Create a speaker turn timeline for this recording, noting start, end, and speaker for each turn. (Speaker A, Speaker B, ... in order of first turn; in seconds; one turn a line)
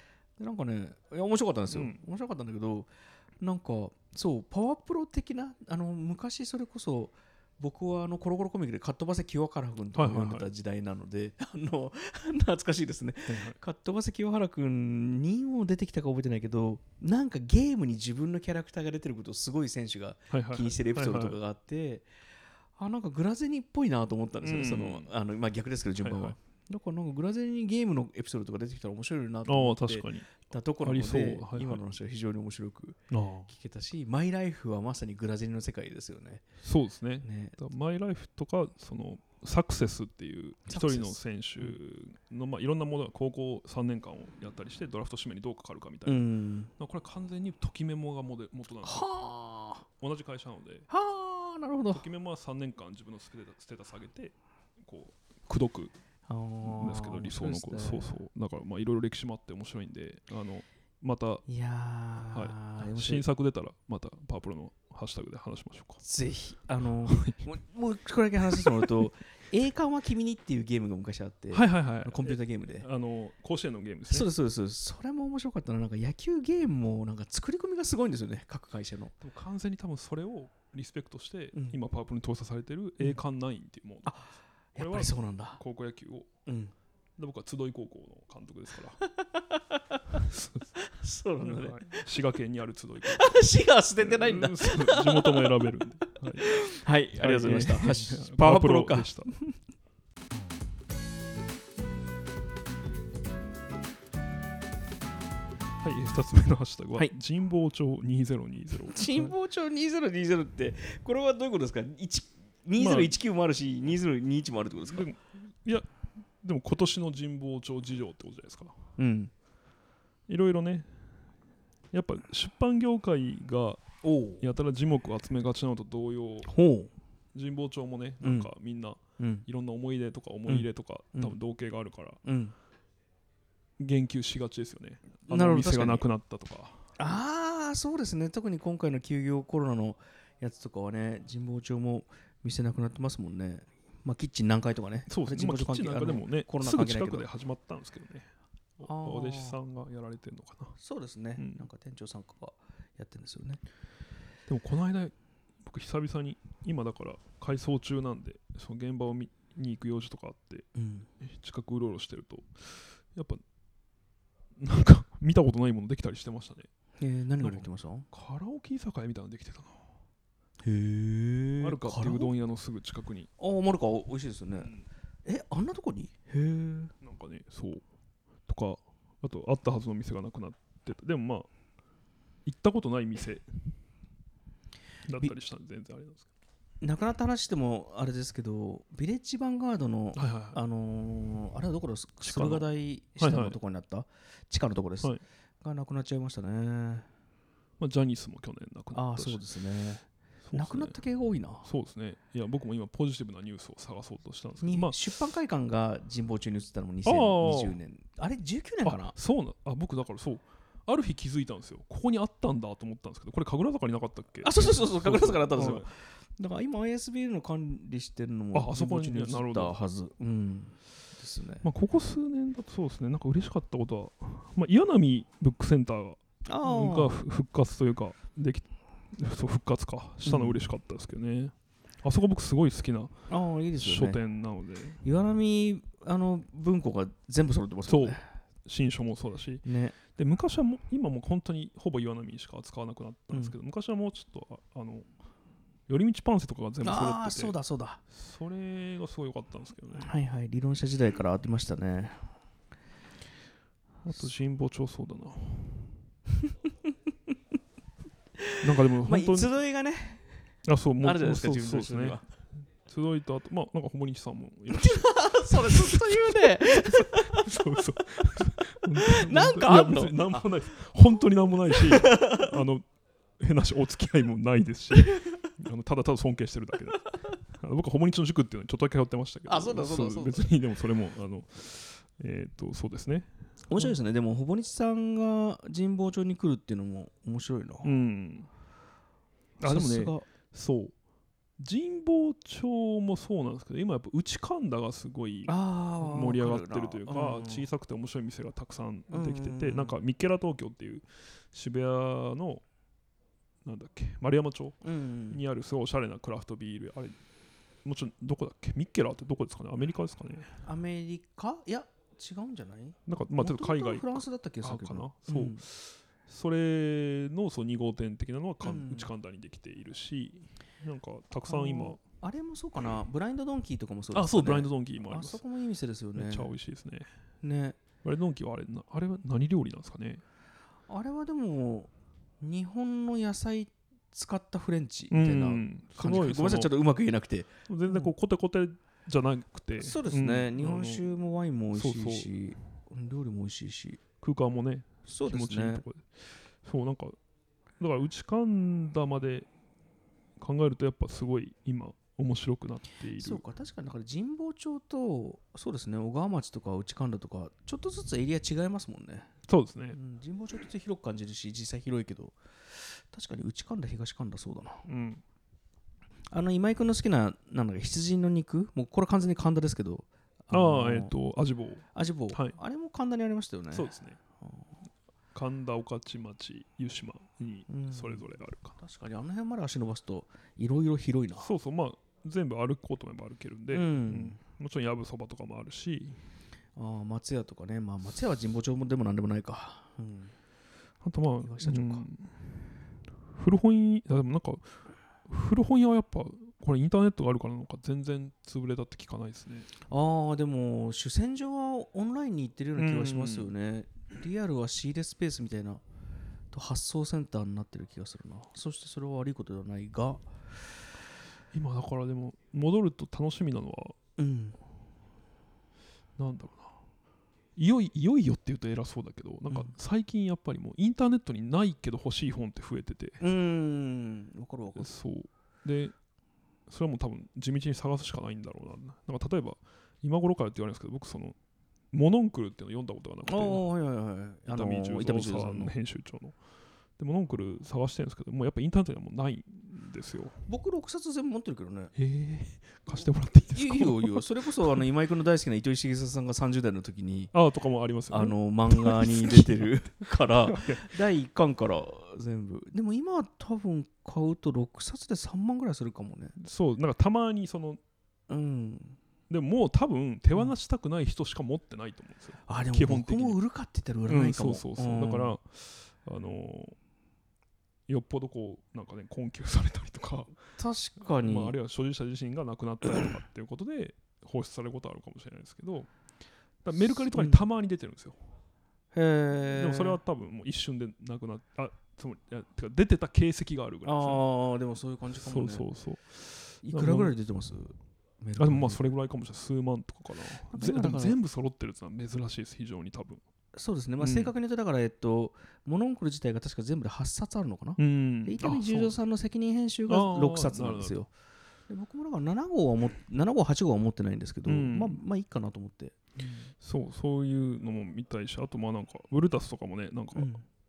Speaker A: 0.4-22.1
Speaker B: 1.7-2.0
Speaker B: 9.9-10.5
Speaker B: 13.3-13.6
Speaker B: 20.3-21.4
Speaker A: 22.8-36.4
Speaker B: 24.4-25.1
Speaker B: 26.0-26.4
Speaker B: 29.4-31.8
Speaker B: 33.1-33.5
Speaker B: 36.6-49.1
Speaker A: 37.2-37.5
Speaker A: 40.7-41.7
Speaker A: 46.0-46.7
Speaker A: 48.8-49.8
Speaker B: 50.0-50.9
Speaker A: 50.9-52.0
Speaker B: 51.9-55.9
Speaker A: 56.3-58.1
Speaker B: 56.6-61.4
Speaker A: 61.5-63.2
Speaker B: 62.3-66.0
Speaker A: 66.0-72.8
Speaker B: 67.0-67.4
Speaker B: 68.6-68.9
Speaker B: 71.5-74.3
Speaker A: 74.1-79.1
Speaker B: 79.2-84.1
Speaker A: 84.0-85.6
Speaker B: 84.8-86.3
Speaker A: 86.5-86.7
Speaker B: 87.2-89.0
Speaker A: 89.1-90.2
Speaker B: 90.2-90.7
Speaker A: 90.8-92.0
Speaker B: 91.4-93.4
Speaker A: 93.0-95.6
Speaker B: 94.0-96.6
Speaker A: 96.4-99.5
Speaker B: 97.2-99.3
Speaker B: 105.8-109.3
Speaker A: 108.9-115.1
Speaker B: 112.8-113.2
Speaker B: 114.8-118.8
Speaker A: 119.0-119.3
Speaker B: 120.3-120.9
Speaker B: 121.9-123.9
Speaker A: 124.0-124.4
Speaker B: 124.4-126.5
Speaker A: 126.5-126.9
Speaker B: 127.3-132.2
Speaker A: 128.2-128.5
Speaker A: 129.2-129.4
Speaker A: 130.5-131.3
Speaker A: 132.2-132.5
Speaker B: 133.8-136.8
Speaker A: 135.3-136.0
Speaker A: 137.0-147.3
Speaker B: 145.1-150.7
Speaker A: 148.8-149.6
Speaker A: 150.8-153.6
Speaker B: 151.4-151.7
Speaker B: 154.5-160.7
Speaker A: 160.7-161.1
Speaker B: 161.2-163.4
Speaker B: 164.6-166.7
Speaker A: 167.0-168.1
Speaker B: 167.4-169.8
Speaker A: 170.6-172.3
Speaker B: 171.6-173.3
Speaker A: 173.4-176.9
Speaker B: 177.0-177.8
Speaker B: 178.5-181.5
Speaker B: 182.4-183.8
Speaker B: 185.1-186.3
Speaker A: 186.8-197.1
Speaker B: 190.1-190.6
Speaker B: 192.2-192.7
Speaker B: 193.2-193.6
Speaker B: 197.8-199.4
Speaker A: 198.9-201.7
Speaker B: 200.4-201.0
Speaker B: 201.6-205.0
Speaker A: 204.6-209.1
Speaker B: 207.0-207.8
Speaker B: 208.8-215.9
Speaker A: 214.4-221.6
Speaker B: 218.5-219.8
Speaker B: 221.6-233.1
Speaker A: 226.4-227.2
Speaker A: 230.2-230.6
Speaker A: 233.3-234.2
Speaker B: 233.8-235.0
Speaker A: 235.0-238.2
Speaker B: 237.8-245.1
Speaker A: 239.6-239.9
Speaker B: 245.9-247.5
Speaker A: 246.8-248.0
Speaker B: 248.1-250.1
Speaker A: 249.9-252.2
Speaker B: 254.0-256.0
Speaker A: 258.4-260.3
Speaker B: 258.6-259.5
Speaker B: 260.6-262.2
Speaker A: 261.0-262.2
Speaker B: 262.8-272.9
Speaker A: 264.7-267.5
Speaker A: 268.9-270.5
Speaker A: 271.7-272.5
Speaker B: 273.4-283.9
Speaker A: 279.5-280.5
Speaker A: 283.7-287.9
Speaker B: 287.8-288.5
Speaker B: 289.6-290.9
Speaker A: 289.6-290.3
Speaker B: 291.6-302.6
Speaker A: 295.5-297.6
Speaker A: 299.1-299.9
Speaker B: 303.6-307.2
Speaker A: 304.8-305.4
Speaker B: 307.8-310.6
Speaker A: 310.6-315.6
Speaker B: 313.1-322.0
Speaker A: 318.6-319.1
Speaker A: 321.4-326.5
Speaker B: 324.1-325.4
Speaker B: 326.1-327.1
Speaker A: 327.4-327.8
Speaker B: 328.0-330.2
Speaker A: 330.9-338.1
Speaker B: 335.1-336.7
Speaker B: 337.7-341.0
Speaker A: 339.8-344.0
Speaker B: 341.7-342.3
Speaker B: 344.2-347.1
Speaker A: 345.1-345.8
Speaker B: 347.8-349.5
Speaker B: 350.4-353.4
Speaker A: 353.2-359.3
Speaker B: 359.5-359.9
Speaker A: 359.9-364.8
Speaker B: 364.9-365.2
Speaker A: 366.3-371.1
Speaker B: 370.5-372.6
Speaker A: 371.9-373.9
Speaker B: 373.7-374.2
Speaker A: 374.4-374.7
Speaker B: 375.3-378.8
Speaker A: 377.7-381.5
Speaker B: 381.4-386.2
Speaker A: 383.7-384.4
Speaker A: 386.8-390.3
Speaker B: 391.0-392.5
Speaker A: 391.4-392.1
Speaker B: 393.3-394.7
Speaker B: 395.3-399.7
Speaker A: 399.9-405.8
Speaker B: 402.8-403.5
Speaker A: 406.5-410.3
Speaker B: 411.5-413.9
Speaker A: 414.2-414.6
Speaker B: 416.2-416.8
Speaker B: 417.6-423.2
Speaker A: 419.5-419.7
Speaker A: 423.2-424.9
Speaker B: 424.8-425.9
Speaker B: 426.7-431.4
Speaker B: 431.9-433.6
Speaker A: 433.3-435.7
Speaker B: 434.5-436.4
Speaker B: 437.0-440.4
Speaker A: 440.5-441.9
Speaker B: 441.9-444.8
Speaker A: 443.5-447.3
Speaker B: 447.3-449.8
Speaker A: 448.1-456.3
Speaker B: 450.4-450.9
Speaker B: 456.4-457.8
Speaker A: 458.3-459.0
Speaker B: 459.3-463.4
Speaker A: 462.5-465.4
Speaker B: 464.1-466.8
Speaker B: 467.9-470.3
Speaker A: 470.6-471.6
Speaker B: 471.2-475.9
Speaker B: 476.6-478.2
Speaker A: 477.1-477.4
Speaker A: 478.9-480.0
Speaker B: 479.5-484.2
Speaker A: 483.8-485.6
Speaker B: 485.1-487.1
Speaker A: 486.6-488.8
Speaker B: 488.4-493.2
Speaker A: 490.5-491.1
Speaker A: 493.6-501.1
Speaker B: 494.0-494.3
Speaker B: 497.8-498.9
Speaker B: 499.9-501.0
Speaker A: 501.7-506.5
Speaker B: 504.4-505.0
Speaker B: 506.6-510.3
Speaker A: 510.1-510.4